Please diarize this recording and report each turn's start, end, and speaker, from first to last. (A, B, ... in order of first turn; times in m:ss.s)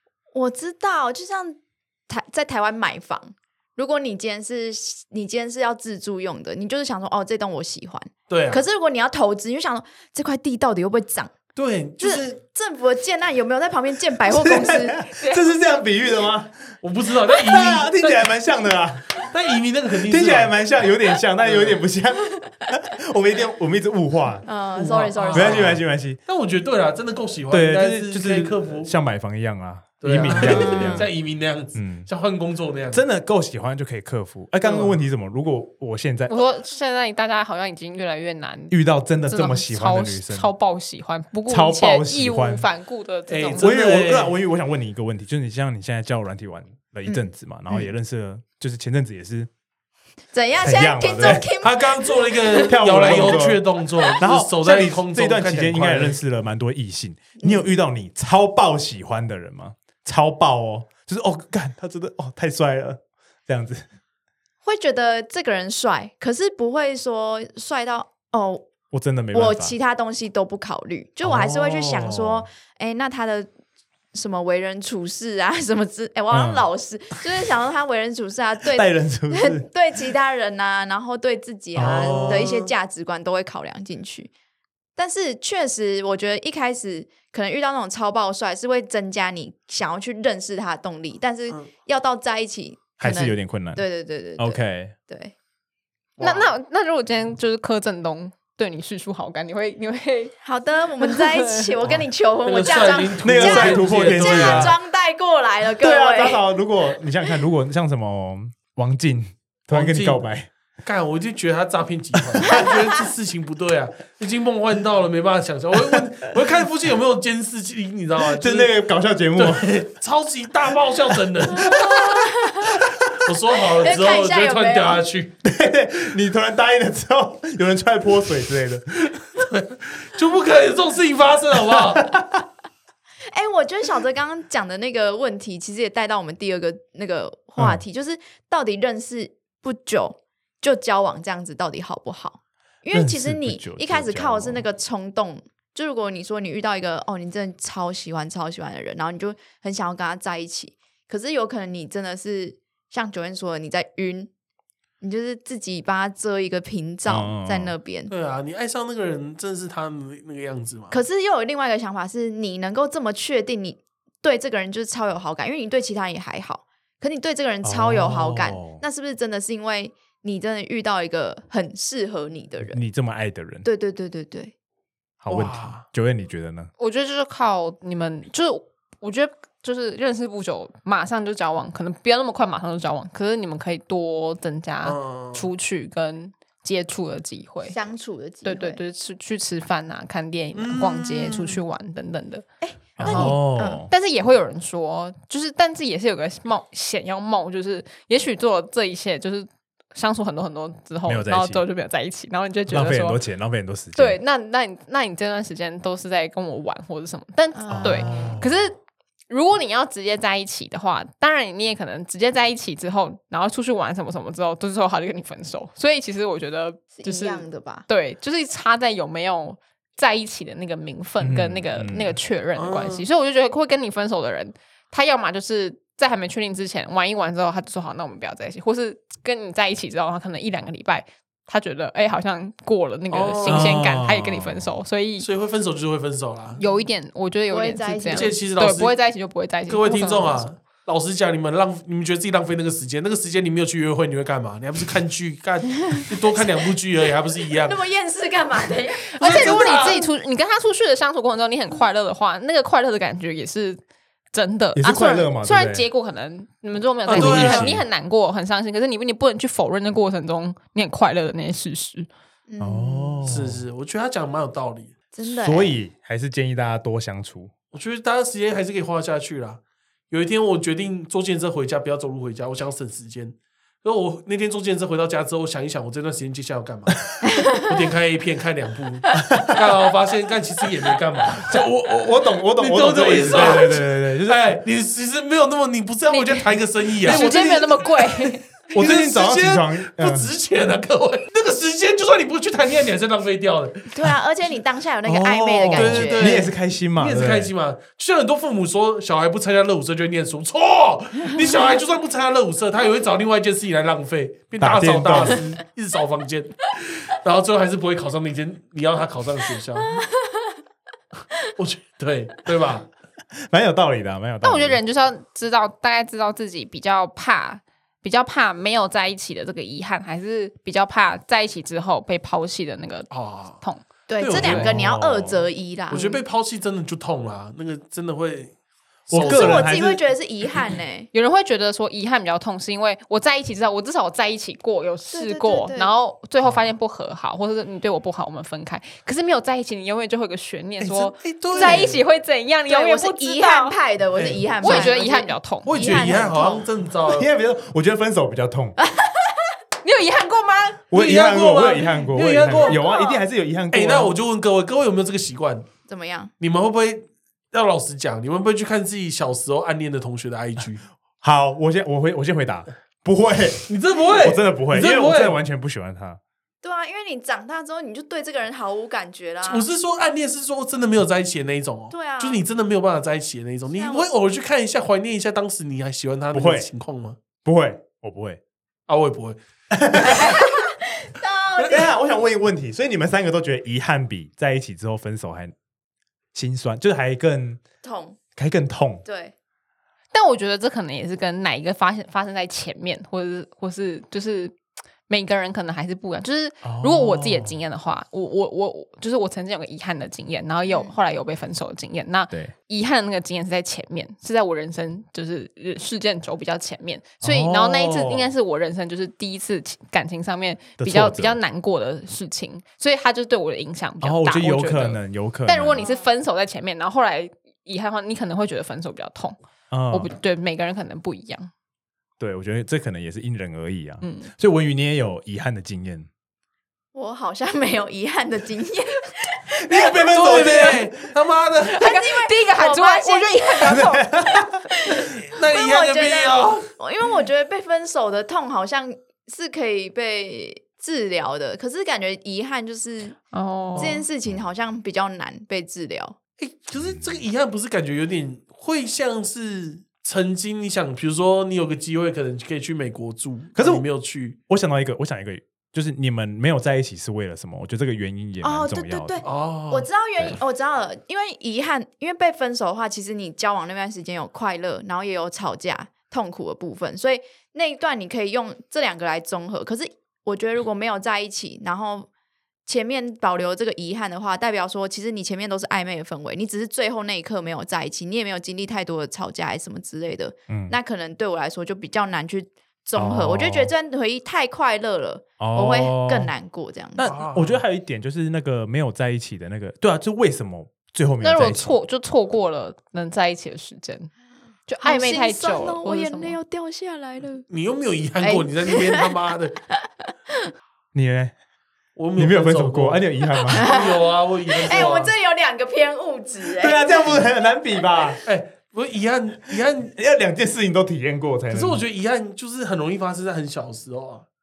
0:00.3-0:11.3 A
0:08.3-0:08.6 B
0:11.5-0:12.4 B
0:12.0-0:15.0 A
0:14.3-0:16.5 C
0:15.2-0:15.5 D
0:16.8-0:18.3 B
0:17.4-0:19.2 C
0:19.2-0:20.5 B
0:19.9-0:24.4 C
0:21.4-0:21.8 B
0:24.4-0:25.8 A
0:24.8-0:28.9 B
0:25.3-0:26.2 C
0:27.5-0:31.1 C
0:30.0-0:33.0 B
0:30.3-0:31.0 A
0:31.7-0:32.1 C
0:32.9-0:36.4 C
0:34.6-0:34.9 B
0:36.3-0:38.8 D
0:38.7-0:40.5 C
0:39.3-0:43.7 D
0:41.5-0:42.6 C
0:43.3-0:44.3 B
0:43.6-0:49.5 C
0:47.0-0:47.9 A
0:50.3-0:53.4 A
0:50.6-0:51.4 C
0:51.6-0:56.2 B
0:52.5-1:03.8 C
0:57.4-0:57.6 A
1:04.6-1:08.7 A
1:08.9-1:09.7 C
1:09.3-1:13.5 A
1:11.2-1:12.5 C
1:14.1-1:24.3 A
1:16.3-1:16.6 C
1:18.7-1:19.6 C
1:21.8-1:22.6 C
1:21.8-1:22.7 B
1:25.0-1:35.3 A
1:33.0-1:33.8 C
1:34.4-1:34.9 C
1:36.2-1:36.5 B
1:36.2-1:40.4 D
1:40.4-1:46.4 A
1:41.0-1:41.7 D
1:41.8-1:44.7 B
1:43.2-1:44.7 C
1:45.8-1:50.5 C
1:49.7-1:50.2 B
1:50.8-1:58.7 B
1:52.3-1:52.7 C
1:58.2-1:59.7 C
1:59.4-2:02.0 B
2:01.6-2:02.0 C
2:01.7-2:02.8 A
2:02.7-2:03.0 C
2:03.2-2:05.3 B
2:03.8-2:05.0 A
2:05.4-2:09.1 C
2:09.4-2:12.1 B
2:11.7-2:12.4 C
2:13.3-2:34.3 A
2:22.9-2:24.6 C
2:35.0-2:38.1 A
2:37.0-2:37.7 C
2:38.1-2:41.0 B
2:40.9-2:52.8 A
2:47.6-2:48.8 C
2:52.7-2:53.6 C
2:53.6-2:54.5 A
2:55.2-2:56.7 C
2:55.3-2:55.8 B
2:56.8-3:07.8 D
3:04.8-3:05.5 B
3:07.7-3:08.8 A
3:08.4-3:23.2 D
3:10.5-3:11.6 B
3:12.6-3:13.8 A
3:13.0-3:13.9 C
3:21.0-3:21.6 C
3:22.7-3:24.2 C
3:23.9-3:28.8 D
3:27.6-3:28.4 A
3:27.7-3:28.6 C
3:29.3-3:55.3 D
3:37.0-3:37.8 A
3:41.2-3:42.2 C
3:42.6-3:43.0 B
3:53.1-3:53.8 B
3:53.4-3:54.7 C
3:55.2-3:56.6 B
3:56.6-4:00.5 D
3:57.5-3:58.3 A
3:58.1-3:58.9 B
3:59.7-4:07.8 B
4:07.6-4:10.1 A
4:09.1-4:13.8 D
4:09.2-4:10.0 B
4:14.3-4:22.1 D
4:14.8-4:15.8 C
4:17.1-4:17.8 B
4:17.1-4:17.8 C
4:22.5-4:23.3 A
4:22.6-4:23.6 C
4:23.2-4:24.9 B
4:25.1-4:25.7 A
4:25.2-4:27.5 C
4:27.7-4:37.0 B
4:37.2-4:37.6 A
4:37.6-4:41.6 B
4:39.3-4:39.6 C
4:41.4-4:44.6 C
4:42.6-4:53.9 B
4:46.1-4:48.4 D
4:47.0-4:47.7 C
4:48.7-4:50.3 C
4:53.9-4:56.4 A
4:55.0-4:57.5 C
4:55.7-5:10.0 B
5:04.6-5:05.6 C
5:10.2-5:10.5 A
5:11.6-5:12.9 B
5:13.5-5:14.8 C
5:14.4-5:23.8 D
5:23.1-5:23.6 B
5:24.1-5:26.2 A
5:24.2-5:24.8 B
5:24.3-5:25.5 C
5:25.9-5:28.5 B
5:29.1-5:29.8 B
5:29.1-5:30.0 C
5:29.2-5:31.1 A
5:31.1-5:43.8 D
5:35.1-5:35.9 A
5:40.8-5:42.0 B
5:41.5-5:42.0 A
5:42.7-5:46.6 A
5:44.1-5:44.9 B
5:44.6-5:46.2 D
5:45.6-5:47.3 B
5:47.1-5:48.8 C
5:48.8-5:49.4 A
5:49.8-5:50.8 D
5:50.9-5:54.1 C
5:50.9-5:52.8 B
5:52.6-5:53.2 A
5:53.7-5:55.7 B
5:55.9-5:56.3 A
5:56.4-6:00.8 B
6:01.2-6:06.2 C
6:03.7-6:05.4 B
6:06.6-6:09.7 A
6:09.4-6:17.2 B
6:11.9-6:12.4 A
6:13.7-6:14.1 A
6:16.3-6:16.7 C
6:17.4-6:18.4 C
6:18.9-6:19.4 B
6:19.7-6:20.4 C
6:20.0-6:21.9 A
6:21.6-6:25.5 C
6:26.3-6:27.6 C
6:27.8-6:28.2 A
6:28.4-6:29.0 C
6:29.0-6:29.3 A
6:30.1-6:34.5 D
6:35.1-6:59.4 D
6:36.6-6:37.6 C
6:40.7-6:40.9 A
6:47.2-6:48.3 C
6:50.8-6:51.4 C
6:54.0-6:55.8 C
6:55.8-6:56.1 A
6:59.7-7:00.1 C
6:59.9-7:01.5 D
7:02.2-7:06.1 C
7:04.0-7:04.3 D
7:06.9-7:09.1 A
7:09.6-7:10.9 C
7:09.7-7:10.6 A
7:10.0-7:11.8 B
7:11.7-7:14.2 D
7:11.8-7:13.8 A
7:13.6-7:14.6 C
7:14.7-7:23.2 A
7:15.2-7:16.7 B
7:23.3-7:24.0 D
7:23.7-7:26.2 A
7:26.4-7:34.4 B
7:26.8-7:27.2 C
7:33.6-7:33.8 C
7:34.5-7:39.2 C
7:38.4-7:52.1 A
7:39.2-7:39.9 B
7:52.6-8:07.1 A
8:00.5-8:00.8 C
8:03.0-8:03.7 C
8:05.4-8:06.3 C
8:07.0-8:11.8 C
8:07.0-8:07.6 B
8:11.2-8:14.1 D
8:14.7-8:16.4 D
8:14.8-8:17.5 A
8:17.5-8:19.6 B
8:18.2-8:19.1 A
8:20.9-8:21.3 C
8:22.0-8:25.1 B
8:22.1-8:23.7 C
8:23.5-8:27.3 A
8:26.6-8:28.2 C
8:28.2-8:29.9 B
8:29.9-8:31.8 C
8:31.5-8:34.2 B